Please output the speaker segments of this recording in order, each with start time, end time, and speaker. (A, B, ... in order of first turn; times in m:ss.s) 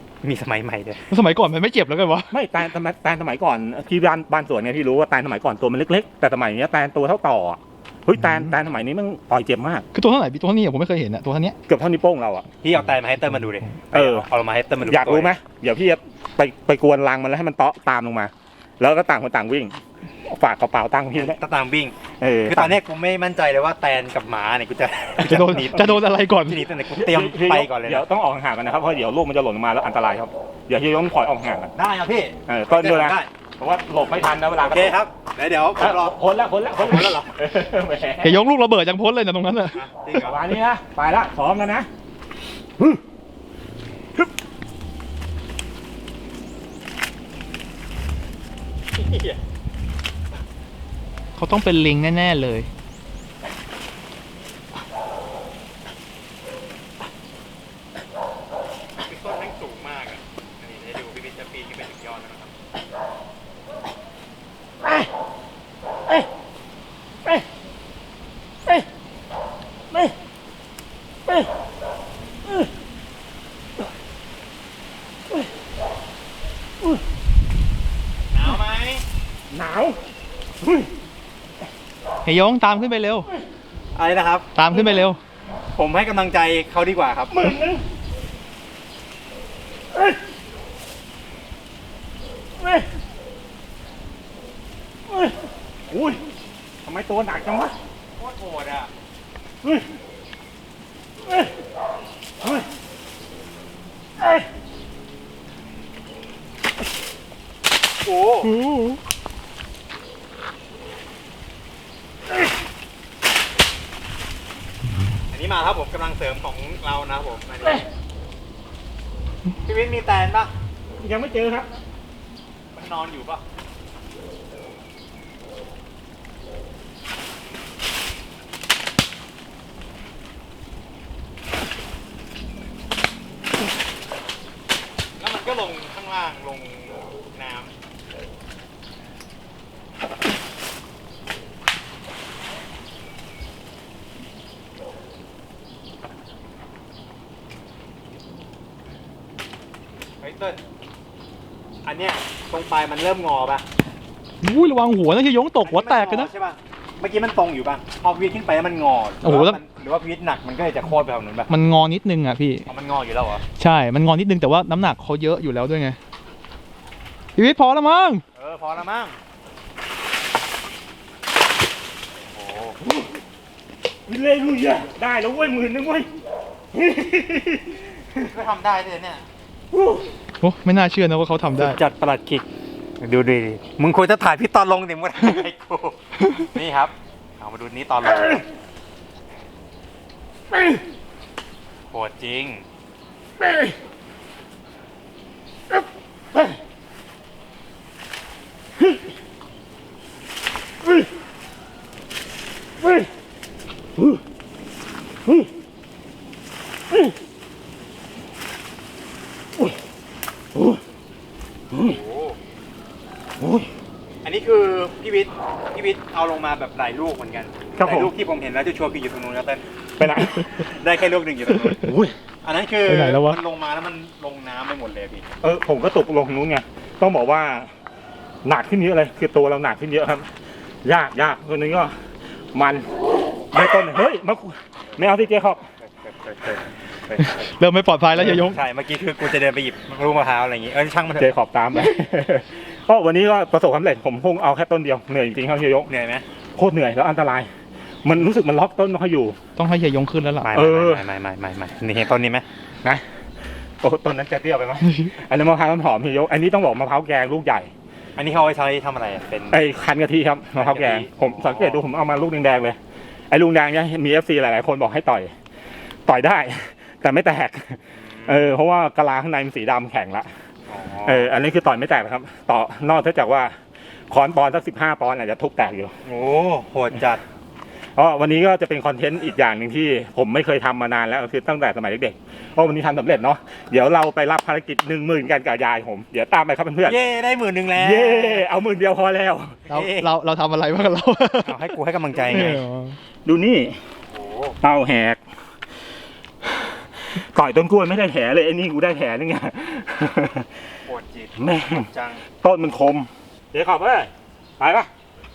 0:00.2-0:01.1 A
0:01.1-0:02.3 B
0:02.3-0:09.8 C
0:09.9-0:11.6 B
0:11.7-0:12.5 C
0:12.6-0:15.3 A
0:13.9-0:14.3 C
0:14.8-0:21.4 C
0:21.1-0:28.0 A
0:22.2-0:22.8 C
0:25.2-0:26.6 B
0:26.9-0:31.7 C
0:31.7-0:33.3 A
0:32.5-0:35.0 C
0:34.6-0:36.2 A
0:35.8-0:38.4 C
0:36.8-0:37.3 A
0:38.2-0:39.8 B
0:39.7-0:40.5 A
0:40.2-0:41.9 C
0:48.9-0:49.4 A
0:51.4-0:52.7 B
0:59.0-1:02.5 A
1:18.3-1:19.0 A
1:19.5-1:20.0 C
1:20.6-1:20.9 C
1:22.2-1:23.3 B
1:23.9-1:24.5 A
1:24.5-1:25.2 B
1:25.7-1:27.3 A
1:27.3-1:27.8 C
1:35.1-1:35.4 C
1:35.9-1:36.2 C
1:36.8-1:37.7 C
1:38.2-1:38.9 A
1:48.0-1:48.6 A
1:48.5-1:49.0 B
1:55.3-1:57.8 A
1:59.6-2:00.5 A
2:01.0-2:01.7 C
2:02.7-2:03.4 A
2:15.2-2:17.7 A
2:30.2-2:30.6 A
2:31.8-2:33.6 A
2:34.4-2:36.3 B
2:35.6-2:41.5 A
2:39.2-2:39.6 B
2:41.5-2:42.7 B
2:42.6-2:43.4 A
2:43.6-2:46.0 B
2:47.4-2:48.2 B
2:48.4-2:49.2 A
2:52.3-2:52.8 A
2:54.0-2:56.1 C
2:56.7-2:57.8 C
2:58.2-2:59.2 A
2:59.7-3:00.1 C
3:00.4-3:01.8 B
3:01.5-3:02.4 A
3:03.0-3:08.4 A
3:11.9-3:12.7 A
3:22.8-3:23.1 C
3:30.5-3:30.8 C
3:31.7-3:32.4 A
3:33.4-3:33.7 C
3:34.2-3:39.6 A
3:37.7-3:38.1 C
3:40.0-3:40.5 C
3:40.4-3:41.9 A
3:41.8-3:42.1 C
3:42.4-3:45.2 A
3:42.8-3:43.4 B
3:45.4-3:47.7 C
3:48.4-3:50.2 C
3:50.8-3:51.9 C
3:52.5-3:52.9 C
3:53.5-3:55.6 C
3:56.0-3:57.6 A
3:57.4-3:58.6 B
3:58.1-4:01.3 A
4:01.2-4:05.9 C
4:05.9-4:06.2 A
4:06.6-4:07.5 C
4:08.0-4:09.4 C
4:09.6-4:10.6 B
4:10.4-4:12.4 A
4:10.5-4:11.0 C
4:13.8-4:17.7 C
4:18.2-4:19.6 A
4:19.5-4:22.8 C
4:20.6-4:21.8 A
4:23.3-4:25.3 C
4:26.0-4:30.3 C
4:28.0-4:28.5 A
4:30.7-4:31.3 A
4:31.0-4:33.5 C
4:34.1-4:35.9 C
4:36.0-4:37.2 A
4:38.0-4:47.0 C
4:46.8-4:48.5 A
4:47.7-4:49.6 C
4:49.7-4:50.1 A
4:49.7-4:53.0 B
4:51.4-4:52.6 A
4:53.2-4:53.8 C
4:54.1-4:54.6 A
4:54.6-4:55.2 C
4:57.1-5:00.5 C
5:00.8-5:02.2 A
5:01.4-5:01.8 C
5:02.4-5:04.9 C